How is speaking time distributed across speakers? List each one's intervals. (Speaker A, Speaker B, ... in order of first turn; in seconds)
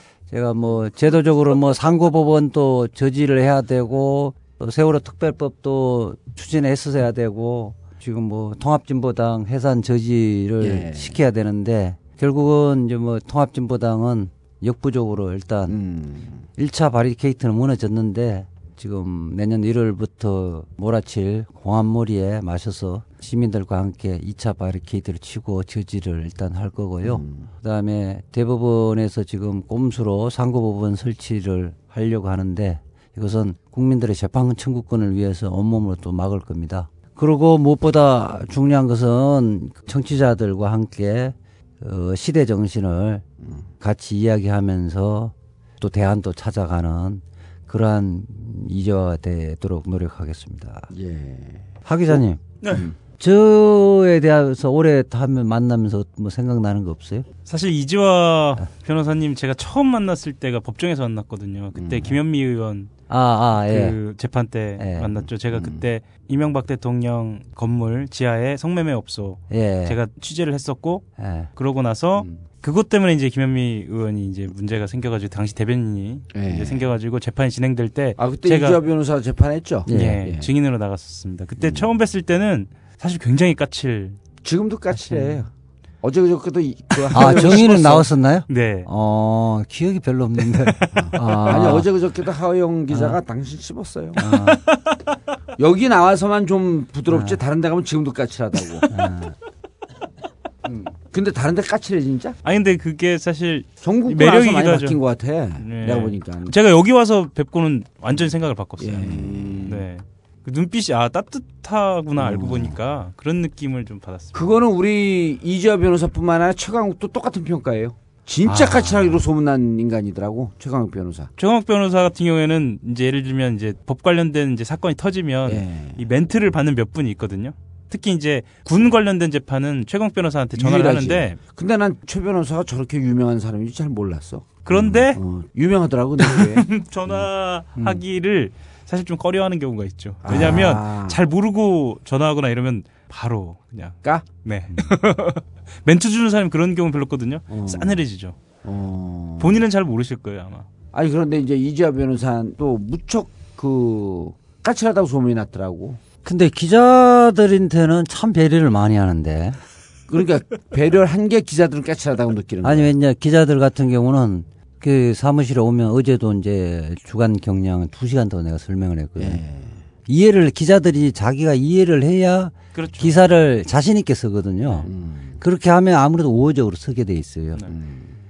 Speaker A: 0.3-15.7, 16.6-43.2, 43.8-50.9, 51.9-52.4, 53.2-57.2, 63.1-64.0, 64.8-65.2, 69.5-70.0, 71.2-71.5, 79.9-80.2, 87.1-91.8, 92.9-93.2, 94.2-94.6, 97.1-97.4, 98.9-99.3, 100.7-100.9, 118.5-119.2, 156.2-159.6, 162.6-169.4, 170.1-174.9, 175.4-177.6
Speaker B: 10.6-11.2, 15.7-16.4, 27.0-27.5, 43.4-43.7, 50.9-52.9, 61.8-62.1, 65.5-65.8, 72.2-72.4, 76.3-76.8, 78.2-80.5, 81.6-81.8, 84.4-85.5, 86.0-88.1, 90.9-94.3, 95.6-98.9, 101.1-102.3, 103.8-106.5, 108.8-109.9, 112.2-112.7, 114.3-121.3, 125.5-126.0, 130.6-136.7, 140.2-141.2, 147.5-148.0, 148.6-149.6, 150.9-156.0, 160.1-162.9, 169.2-169.8, 174.8-175.4, 177.7-178.1
Speaker C: 57.5-62.9, 63.5-78.8, 79.9-84.2, 87.2-87.6, 88.5-88.9, 102.4-105.0, 105.6-114.6, 121.4-131.4, 134.7-135.2, 136.2-148.4, 149.4-150.7, 172.7-173.2